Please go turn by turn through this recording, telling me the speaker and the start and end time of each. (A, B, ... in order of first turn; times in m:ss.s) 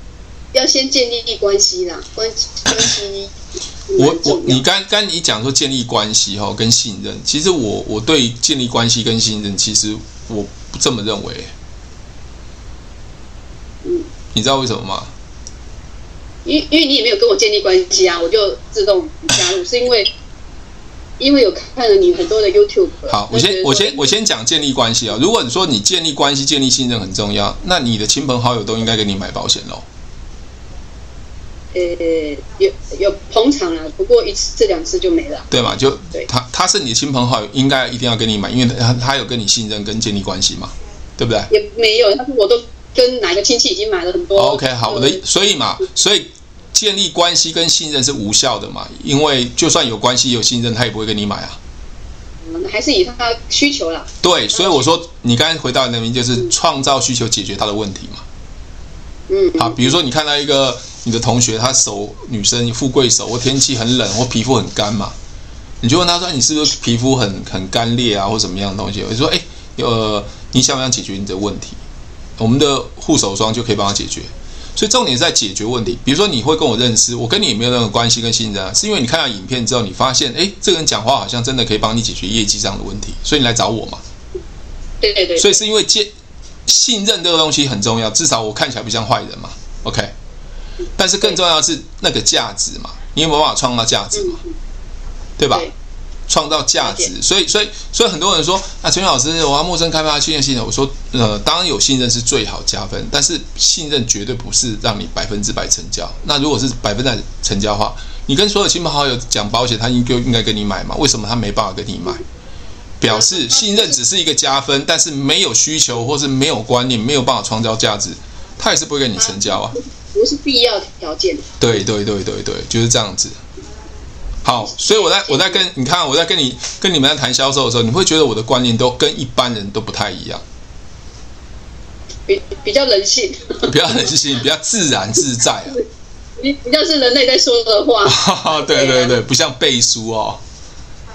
0:00.5-0:03.3 A
0:03.9-0:04.6 A
0:04.0-0:11.5 B
0:13.8-0:14.1 A
0:14.3-0:15.1 B
0:16.4-0:20.1 A
0:21.2-0:24.1 A
0:23.1-0:29.8 B
0:31.7-0:36.3 A
0:35.5-0:41.5 B
0:41.5-0:45.2 A
0:44.4-0:51.6 B
0:52.4-0:54.9 A
0:54.2-0:58.2 B
0:59.3-1:00.0 A
0:59.6-1:05.2 B
1:05.8-1:11.8 B
1:12.4-1:24.0 B
1:25.0-1:25.6 A
1:25.4-1:26.1 B
1:26.7-1:30.1 B
1:31.0-1:34.4 B
1:34.1-1:34.5 A
1:35.4-1:35.7 B
1:36.3-1:52.2 B
1:36.8-1:37.1 A
1:53.0-1:59.8 B
1:53.1-1:54.0 A
1:59.2-2:01.6 A
2:01.6-2:03.4 B
2:04.4-2:10.4 B
2:04.6-2:05.6 A
2:12.3-2:14.0 A
2:13.6-2:15.8 B
2:16.4-2:19.2 A
2:18.0-2:20.4 B